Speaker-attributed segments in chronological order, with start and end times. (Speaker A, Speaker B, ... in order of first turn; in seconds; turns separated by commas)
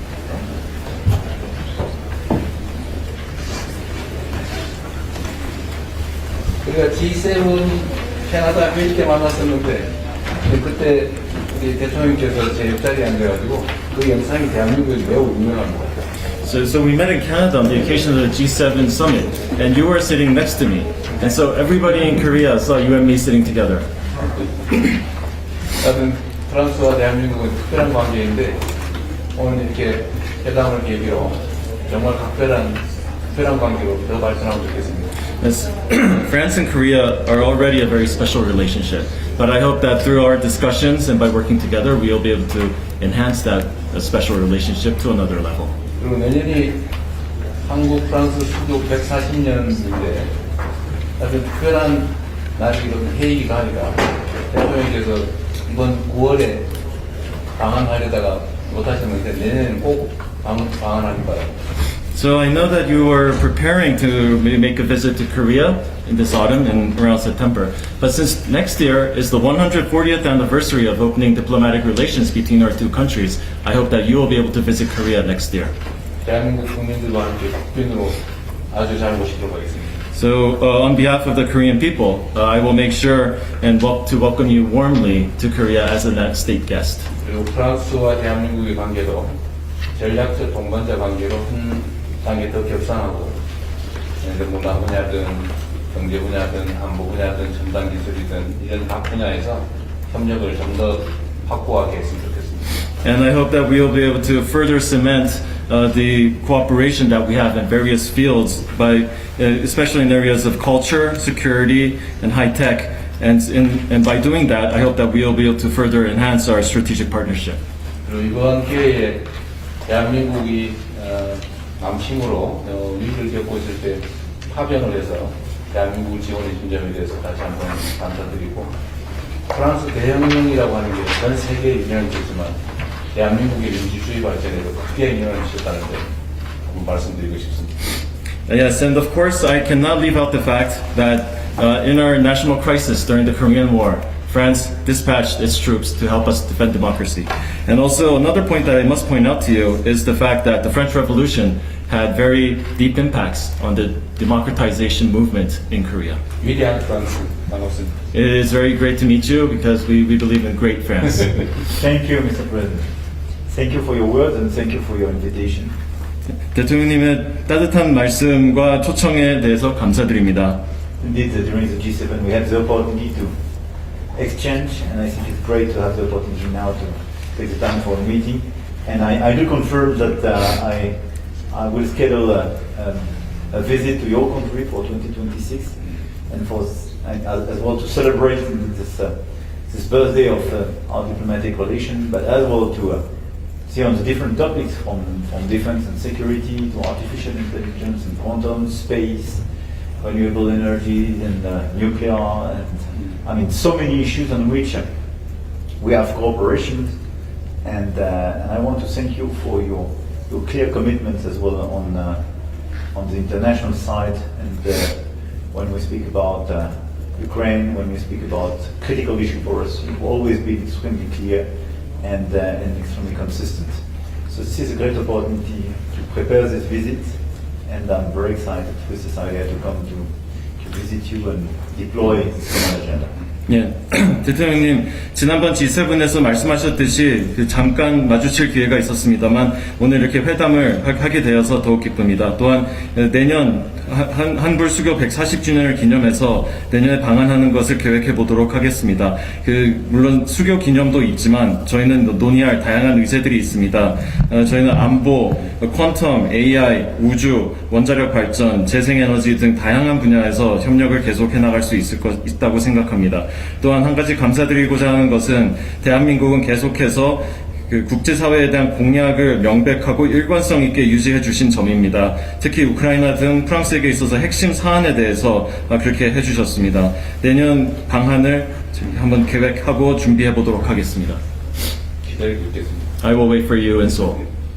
Speaker A: 6.6-16.1, Speaker B: 16.4-23.9, Speaker A: 25.8-28.6, Speaker A: 29.3-35.1, Speaker B: 35.4-45.7, Speaker A: 46.0-46.8, Speaker A: 47.6-50.3, Speaker A: 51.2-56.7, Speaker A: 57.6-61.5, Speaker B: 62.1-75.7, Speaker A: 76.2-80.0, Speaker B: 80.1-87.1, Speaker A: 87.2-89.3, Speaker A: 90.0-93.4, Speaker A: 94.2-102.8, Speaker B: 103.0-117.6, Speaker A: 118.0-119.3, Speaker A: 119.9-128.7, Speaker A: 129.5-132.6, Speaker A: 133.1-136.1, Speaker A: 136.7-138.0, Speaker B: 138.5-156.2, Speaker A: 156.4-157.9, Speaker B: 158.1-161.6, Speaker C: 161.7-162.9, Speaker C: 163.5-165.7, Speaker B: 166.5-170.6, Speaker C: 171.0-173.4, Speaker C: 173.9-185.8, Speaker C: 186.3-193.1, Speaker C: 193.6-199.5, Speaker C: 200.0-204.9, Speaker C: 205.8-207.0, Speaker C: 207.6-212.2, Speaker C: 212.9-233.1, Speaker B: 233.5-281.2, Speaker A: 282.0-282.9, Speaker B: 283.0-284.2